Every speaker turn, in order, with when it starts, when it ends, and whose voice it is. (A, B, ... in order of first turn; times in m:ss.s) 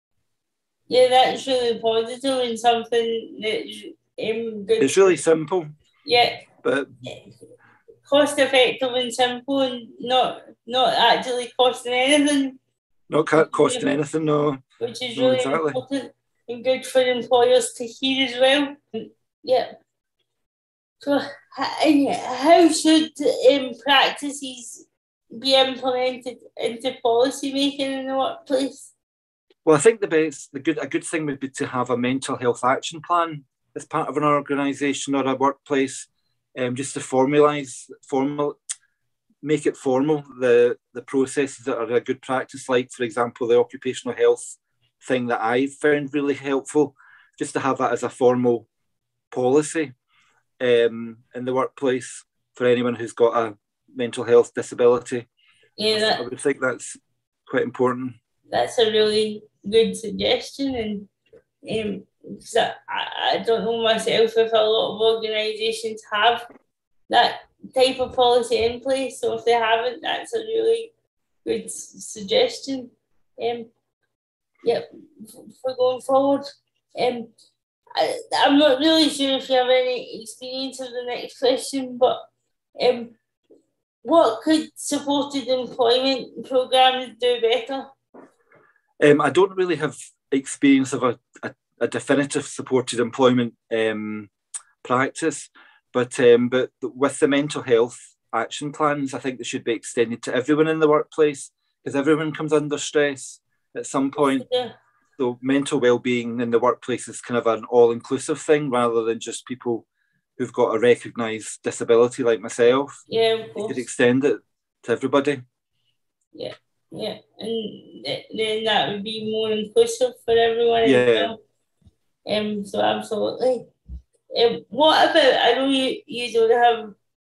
0:00.9-0:05.2 A
0:04.8-0:05.7 B
0:06.0-0:06.4 A
0:06.6-0:06.9 B
0:08.0-0:12.6 A
0:13.1-0:14.6 B
0:13.4-0:13.8 A
0:14.8-0:19.7 A
0:15.2-0:15.8 B
0:21.0-0:28.9 A
0:29.6-0:38.6 B
0:39.4-0:48.7 B
0:49.3-0:49.9 B
0:50.6-0:55.3 B
0:55.8-0:56.2 A
0:55.9-0:58.2 B
0:58.5-1:01.1 A
1:01.6-1:06.4 A
1:07.1-1:10.9 A
1:11.4-1:13.7 A
1:14.6-1:16.4 A
1:16.9-1:17.3 A
1:18.0-1:22.2 A
1:22.8-1:23.2 A
1:24.0-1:27.9 A
1:29.0-1:34.3 B
1:34.8-1:44.5 B
1:44.2-1:44.7 A
1:45.2-1:49.9 B
1:50.4-1:53.0 B
1:53.1-1:53.9 A
1:53.6-1:55.4 B
1:56.3-2:01.4 A
2:00.8-2:01.3 B
2:02.3-2:03.7 A
2:04.3-2:07.0 A